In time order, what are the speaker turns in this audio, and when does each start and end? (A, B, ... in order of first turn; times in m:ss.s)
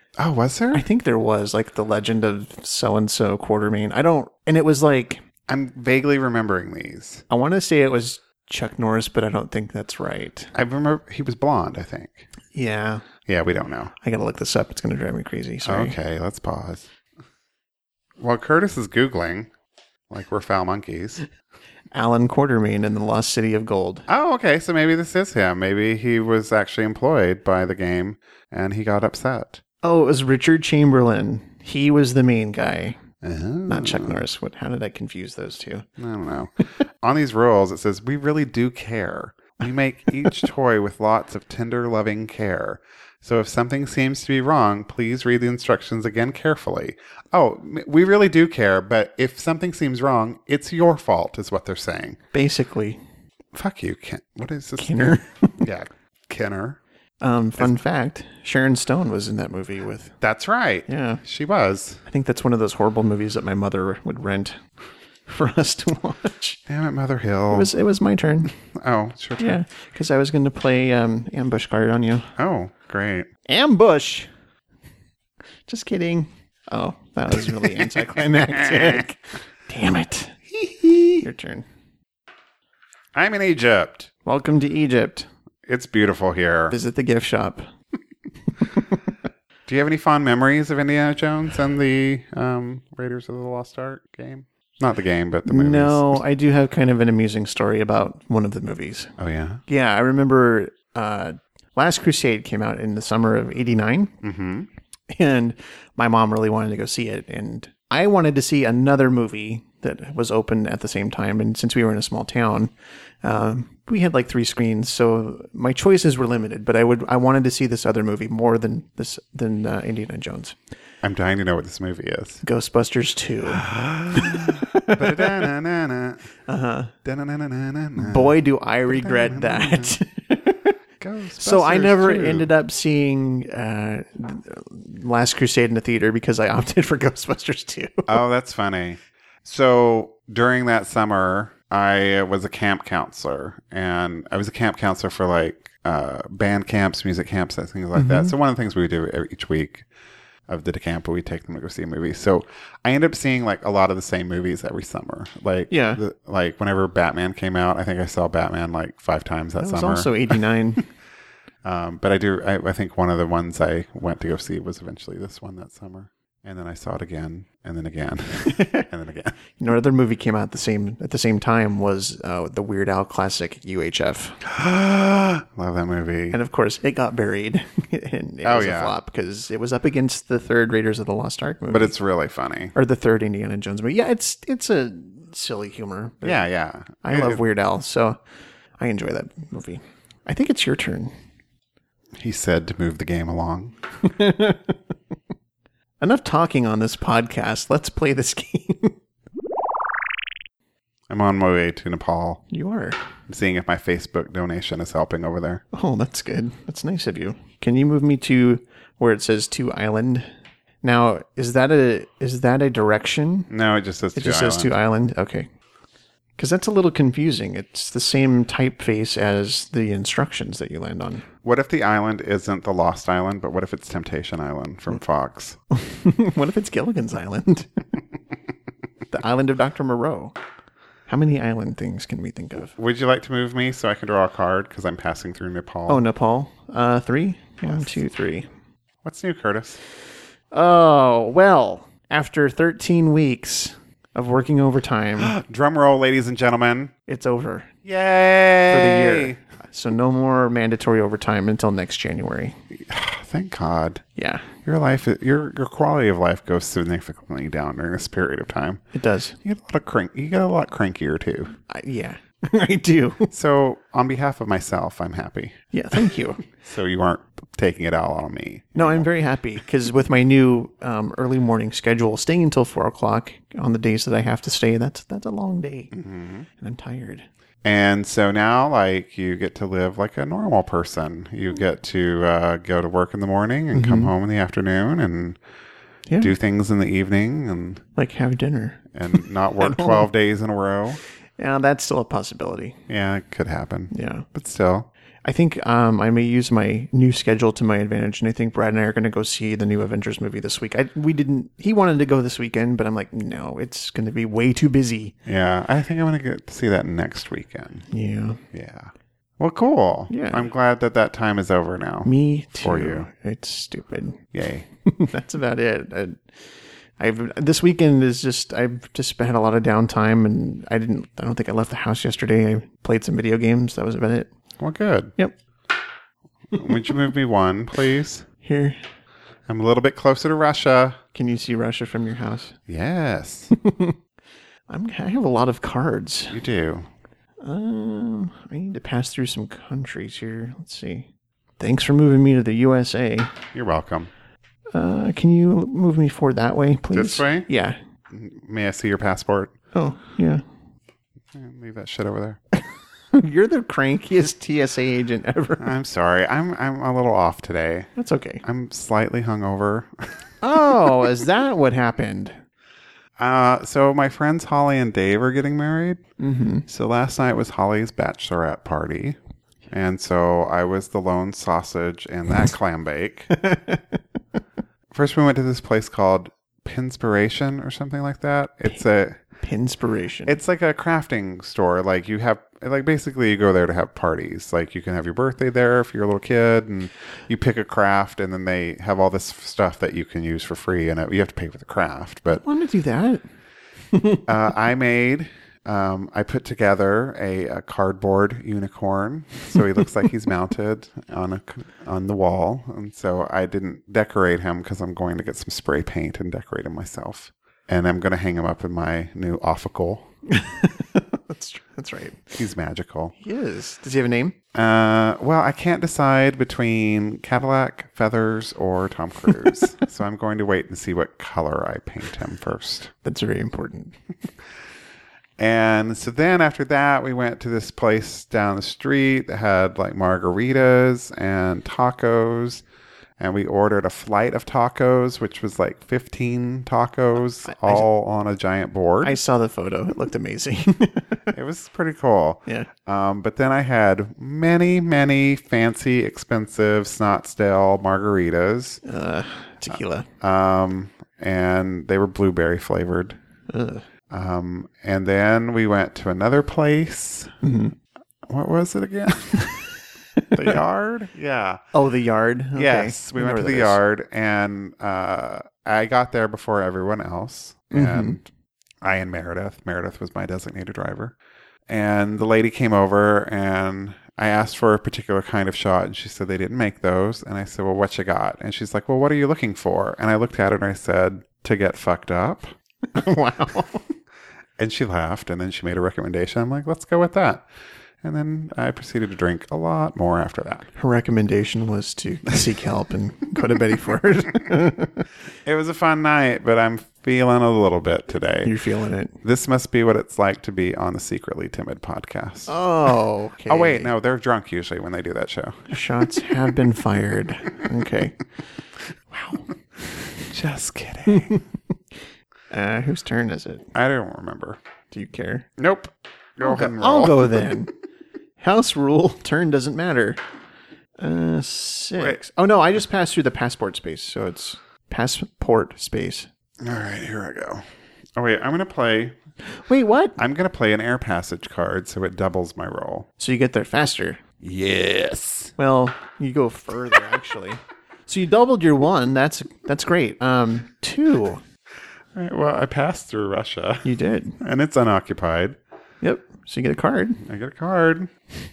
0:00.2-0:00.8 A
0:00.7-0:05.2 B
0:05.5-0:07.2 A
0:07.3-0:10.5 B
0:10.5-0:12.3 A
0:12.5-0:13.0 B
0:13.3-0:13.9 A
0:14.0-0:16.0 B
0:15.6-0:16.9 A
0:18.2-0:19.5 A
0:20.1-0:21.2 A
0:21.9-0:24.1 B
0:24.1-0:29.6 A
0:29.8-0:33.0 B
0:33.2-0:34.2 A
0:33.7-0:35.9 B
0:36.0-0:52.2 A
0:52.3-0:53.0 B
0:53.5-0:56.8 A
0:54.8-0:55.6 B
0:57.2-1:00.2 B
1:00.2-1:02.0 A
1:00.9-1:01.2 B
1:02.1-1:04.6 B
1:05.3-1:06.6 B
1:06.7-1:07.7 A
1:07.5-1:08.6 B
1:08.6-1:09.6 A
1:09.4-1:12.3 B
1:12.4-1:13.3 A
1:13.5-1:14.3 B
1:15.7-1:20.4 B
1:17.6-1:19.0 A
1:20.6-1:21.2 A
1:21.2-1:21.7 B
1:23.2-1:24.1 A
1:24.2-1:25.3 B
1:25.7-1:26.8 A
1:26.7-1:27.7 B
1:28.6-1:29.0 B
1:29.7-1:36.2 A
1:35.5-1:39.1 B
1:39.2-1:39.6 A
1:39.7-1:44.2 B
1:44.2-1:44.7 A
1:45.1-1:52.7 B
1:53.2-2:00.6 B
2:01.0-2:02.4 A
2:02.4-2:05.5 B
2:03.5-2:06.2 A
2:06.5-2:06.9 B
2:07.0-2:10.0 A
2:08.0-2:10.7 B
2:11.0-2:12.5 A
2:11.4-2:18.2 B
2:18.1-2:29.8 A
2:28.0-2:28.3 B
2:30.5-2:40.1 A
2:35.7-2:36.0 B
2:39.6-2:40.8 B
2:41.6-2:49.4 A
2:48.5-2:48.9 B
2:49.6-2:54.4 B
2:54.4-2:56.4 A
2:56.3-3:01.9 B
2:58.4-2:59.0 A
3:01.7-3:02.7 A
3:02.8-3:06.4 B
3:06.2-3:07.4 A
3:07.0-3:08.2 B
3:08.8-3:11.1 B
3:12.2-3:13.8 A
3:14.0-3:14.8 B
3:16.0-3:19.0 B
3:21.1-3:22.4 A
3:22.5-3:23.0 B
3:23.3-3:25.6 A
3:25.7-3:30.3 B
3:30.8-3:33.5 B
3:33.5-3:34.7 A
3:34.2-3:35.5 B
3:36.4-3:41.3 B
3:41.4-3:45.6 A
3:45.7-3:47.8 B
3:49.1-3:50.4 B
3:51.1-3:52.7 B
3:52.8-3:56.0 A
3:55.9-3:58.5 B
3:59.0-3:59.8 A
4:00.5-4:05.4 B
4:05.2-4:06.9 A
4:07.1-4:07.7 B
4:07.8-4:09.4 A
4:08.7-4:12.6 B
4:12.8-4:14.0 A
4:14.2-4:14.5 B
4:14.6-4:18.8 A
4:18.9-4:19.4 B
4:19.4-4:21.6 A
4:21.7-4:23.3 B
4:23.3-4:29.1 A
4:25.7-4:26.4 B
4:28.8-4:35.9 B
4:35.9-4:36.5 A
4:36.6-4:37.3 B
4:37.6-4:45.4 A
4:43.7-4:44.1 B
4:46.2-4:47.8 A
4:48.0-4:50.1 B
4:49.0-4:51.0 A
4:51.4-4:52.8 B
4:52.9-4:54.9 A
4:53.9-4:54.3 B
4:55.2-5:05.2 B
5:05.3-5:07.9 A
5:07.9-5:08.4 B
5:08.5-5:13.1 A
5:10.1-5:10.5 B
5:12.0-5:14.2 B
5:14.3-5:14.7 A
5:14.9-5:16.2 B
5:17.0-5:24.3 B
5:24.6-5:25.1 A
5:26.5-5:28.3 A
5:28.4-5:28.8 B
5:29.5-5:31.0 A
5:31.2-5:32.6 B
5:32.7-5:33.5 A
5:33.5-5:34.0 B
5:34.7-5:36.4 B
5:36.3-5:36.9 A
5:37.4-5:43.4 B
5:43.5-5:44.1 A
5:44.8-5:47.8 B
5:46.9-5:47.5 A
5:48.1-5:49.5 A
5:49.7-5:50.4 B
5:51.3-5:52.4 A
5:53.1-5:55.7 B
5:55.6-5:57.9 A
5:58.0-5:58.4 B
5:58.4-6:00.2 A
6:00.4-6:02.4 B
6:03.2-6:06.0 A
6:06.2-6:06.7 B
6:06.7-6:09.2 A
6:09.7-6:13.3 A
6:13.3-6:14.0 B
6:14.9-6:19.2 A
6:19.4-6:20.4 B
6:20.2-6:32.4 A
6:32.4-6:33.2 B
6:33.9-6:34.3 B
6:34.3-6:50.1 A
6:50.3-6:52.4 B
6:52.4-6:53.2 A
6:53.2-6:54.4 B
6:54.5-7:02.9 A
7:03.0-7:04.0 B
7:05.4-7:12.6 A
7:13.2-7:19.2 A
7:17.5-7:17.8 B
7:19.0-7:21.3 B
7:21.3-7:28.8 A
7:28.8-7:30.1 B
7:30.2-7:33.2 A
7:33.5-7:33.8 B
7:34.1-7:37.4 A
7:37.4-7:37.8 B
7:38.3-7:39.6 A
7:40.2-7:40.5 B
7:40.3-7:41.6 A
7:41.7-7:43.8 B
7:42.6-7:48.3 A
7:47.7-7:48.2 B
7:48.8-7:51.2 A
7:51.7-8:02.5 A
8:02.9-8:03.9 B
8:04.6-8:07.4 A
8:08.0-8:10.7 A
8:10.8-8:15.1 B
8:15.4-8:18.5 A
8:18.4-8:19.2 B
8:19.2-8:22.6 A
8:22.5-8:23.9 B
8:23.5-8:25.8 A
8:25.7-8:28.2 B
8:29.1-8:29.5 B
8:30.3-8:31.4 A
8:31.1-8:31.4 B
8:32.5-8:33.7 B
8:33.7-8:34.6 A
8:34.9-8:35.5 B
8:35.6-8:37.6 A
8:36.4-8:37.7 B
8:38.4-8:40.2 B
8:41.0-8:46.3 B
8:46.6-8:47.6 A
8:48.2-8:49.2 A
8:49.7-8:50.2 B
8:50.2-8:53.1 A
8:53.2-8:54.2 B
8:54.4-8:55.5 A
8:55.6-9:01.4 B
9:02.2-9:03.9 A
9:03.8-9:04.4 B
9:04.4-9:05.6 A
9:06.0-9:07.2 B
9:07.2-9:08.1 A